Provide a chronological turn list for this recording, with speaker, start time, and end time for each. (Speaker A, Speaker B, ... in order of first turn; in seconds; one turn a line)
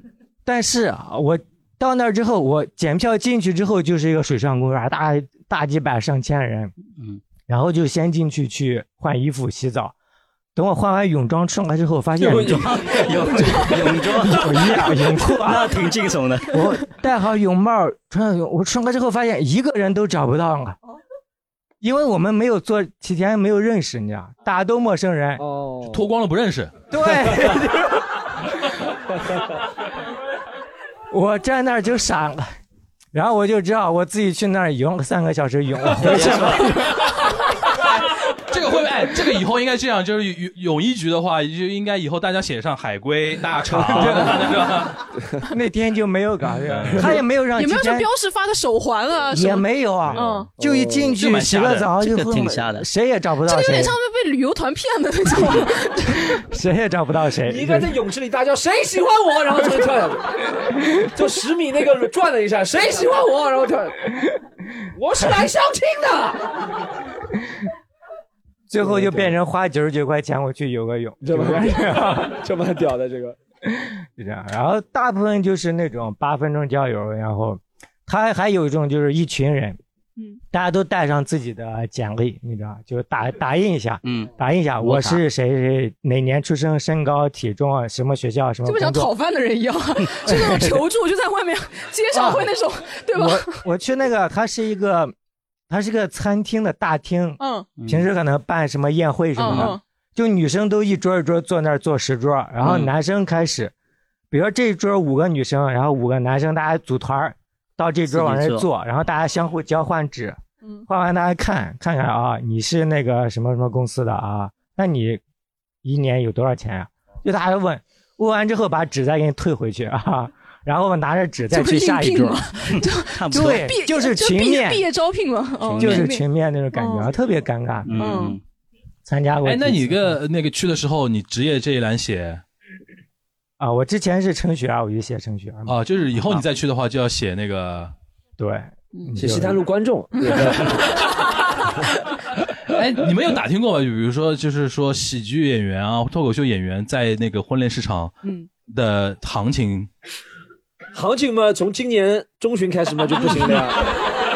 Speaker A: 0.5-6.7
Speaker A: 7.5-9.9
Speaker A: 10.5-15.7
Speaker B: 12.2-16.8
Speaker C: 12.3-12.6
Speaker A: 16.5-20.8
Speaker A: 21.8-25.4
Speaker C: 25.4-26.0
Speaker D: 25.8-26.7
Speaker A: 26.9-28.6
Speaker A: 31.1-32.5
Speaker A: 33.1-37.2
Speaker B: 36.0-36.6
Speaker D: 36.6-37.0
Speaker D: 38.3-45.0
Speaker C: 43.7-44.3
Speaker A: 43.9-44.6
Speaker A: 45.4-48.1
Speaker D: 46.7-47.1
Speaker E: 47.5-50.5
Speaker A: 49.3-54.0
Speaker D: 50.1-50.4
Speaker C: 50.6-51.2
Speaker D: 51.2-51.9
Speaker B: 52.0-52.9
Speaker E: 53.4-56.4
Speaker A: 56.3-57.9
Speaker C: 57.4-64.0
Speaker C: 64.9-66.5
Speaker A: 68.7-72.4
Speaker C: 68.8-69.3
Speaker C: 71.2-73.4
Speaker A: 73.6-79.8
Speaker A: 80.5-89.1
Speaker B: 84.0-85.2
Speaker E: 88.6-93.6
Speaker A: 90.2-90.8
Speaker A: 92.1-92.5
Speaker A: 93.1-95.1
Speaker A: 95.7-103.7
Speaker E: 97.4-97.7
Speaker B: 97.8-98.1
Speaker E: 99.3-99.8
Speaker B: 102.6-102.9
Speaker A: 104.3-115.2
Speaker B: 108.1-108.7
Speaker A: 115.8-122.5
Speaker E: 121.5-127.1
Speaker B: 122.7-123.7
Speaker A: 123.3-124.8
Speaker B: 125.6-126.1
Speaker A: 125.7-128.2
Speaker B: 127.8-128.4
Speaker E: 128.0-128.4
Speaker A: 129.0-130.2
Speaker D: 129.4-132.4
Speaker A: 133.6-136.4
Speaker D: 135.7-137.9
Speaker A: 138.4-139.6
Speaker E: 138.9-139.2
Speaker C: 139.2-141.0
Speaker E: 140.1-140.4
Speaker D: 142.7-148.1
Speaker E: 148.2-148.5
Speaker D: 148.7-149.9
Speaker C: 150.9-153.9